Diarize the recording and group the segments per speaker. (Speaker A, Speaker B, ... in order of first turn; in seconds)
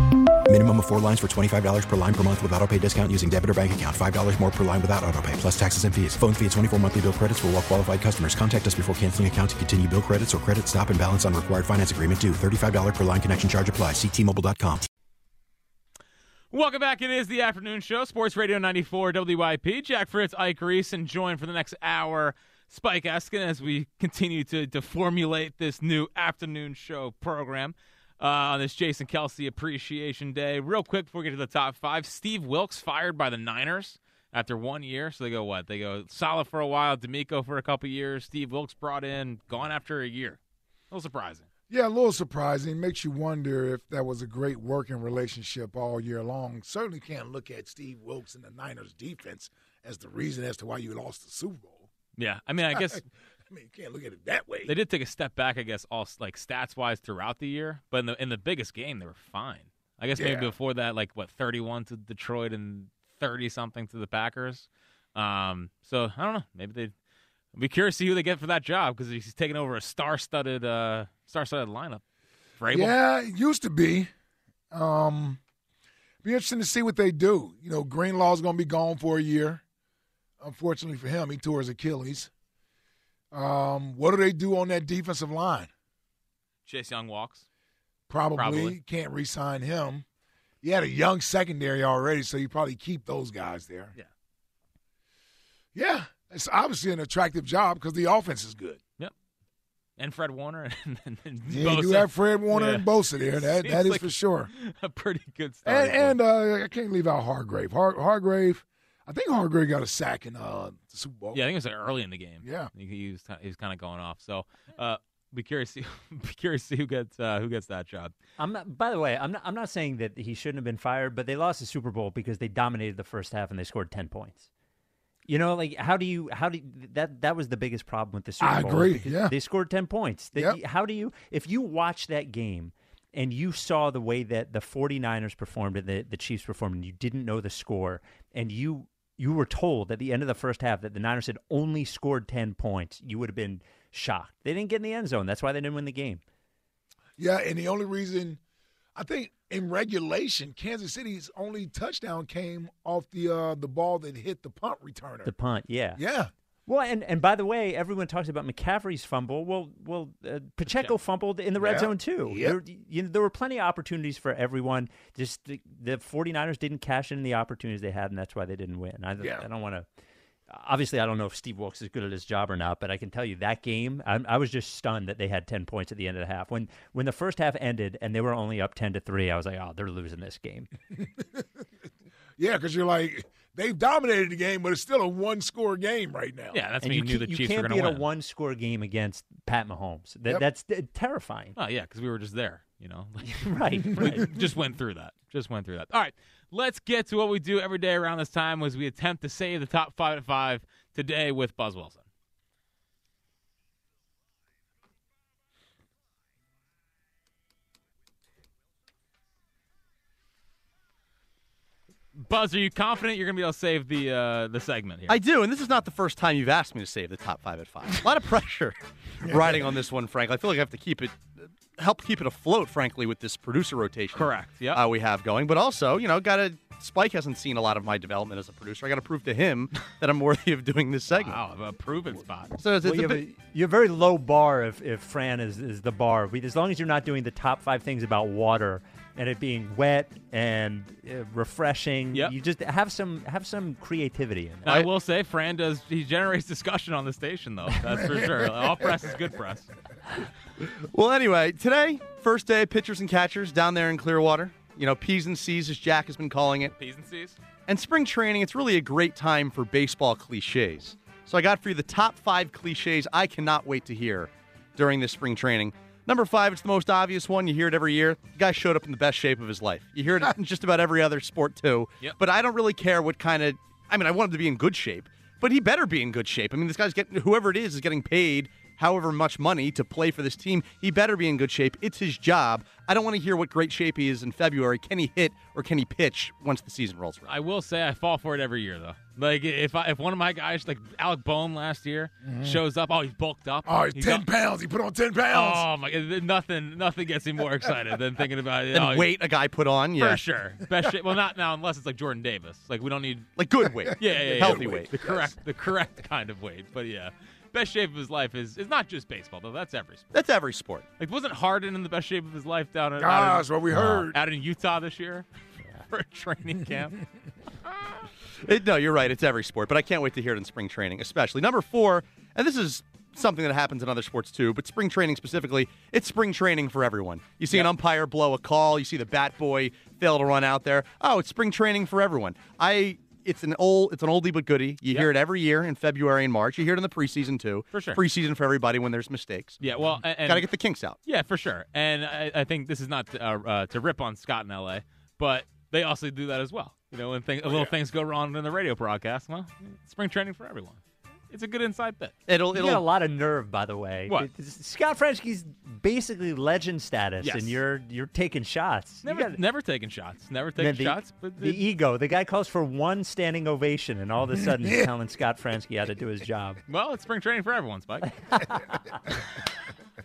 Speaker A: 0.5-14.9
Speaker B: 16.5-40.4, 40.9-41.5, 52.2-53.0, 54.6-66.9, 67.5-72.0, 72.6-72.9, 86.7-87.4, 88.3-88.8, 100.0-106.2, 111.3-118.1, 186.5-188.0, 191.6-202.1, 212.2-215.2, 224.1-224.8, 231.1-232.5, 244.6-249.7, 256.8-257.4, 287.3-294.3, 295.3-299.2, 299.9-303.3, 303.9-310.1, 311.0-315.2, 315.9-317.0, 337.7-338.0, 339.6-340.5, 341.0-352.1, 357.2-357.6, 359.0-361.6, 366.7-369.5
Speaker C: 41.7-51.9, 52.7-54.7, 60.1-60.5, 72.7-74.1, 74.7-75.4, 76.2-79.6, 80.4-82.3, 83.3-85.7, 88.1-90.0, 90.6-93.9, 95.7-98.8, 101.5-104.5, 105.6-111.4, 112.4-112.7, 128.4-129.3, 147.2-148.4, 148.9-155.3, 155.9-156.3, 161.6-162.6, 169.2-169.4, 181.2-181.4, 182.4-186.6, 219.2-219.7, 248.2-248.7, 292.2-292.6, 293.6-295.6, 303.8-305.4, 313.0-314.2, 347.4-347.8, 364.4-364.9
Speaker D: 118.4-124.5, 125.3-146.2, 155.2-156.0, 156.7-169.8, 170.5-180.7, 186.8-191.6, 193.2-194.3, 232.8-244.8, 352.5-359.4, 360.6-366.6
Speaker E: 215.1-231.4, 232.6-233.2, 250.8-256.7, 257.7-287.3, 298.7-300.2, 303.4-304.9, 310.1-310.9, 318.4-340.9, 352.3-352.8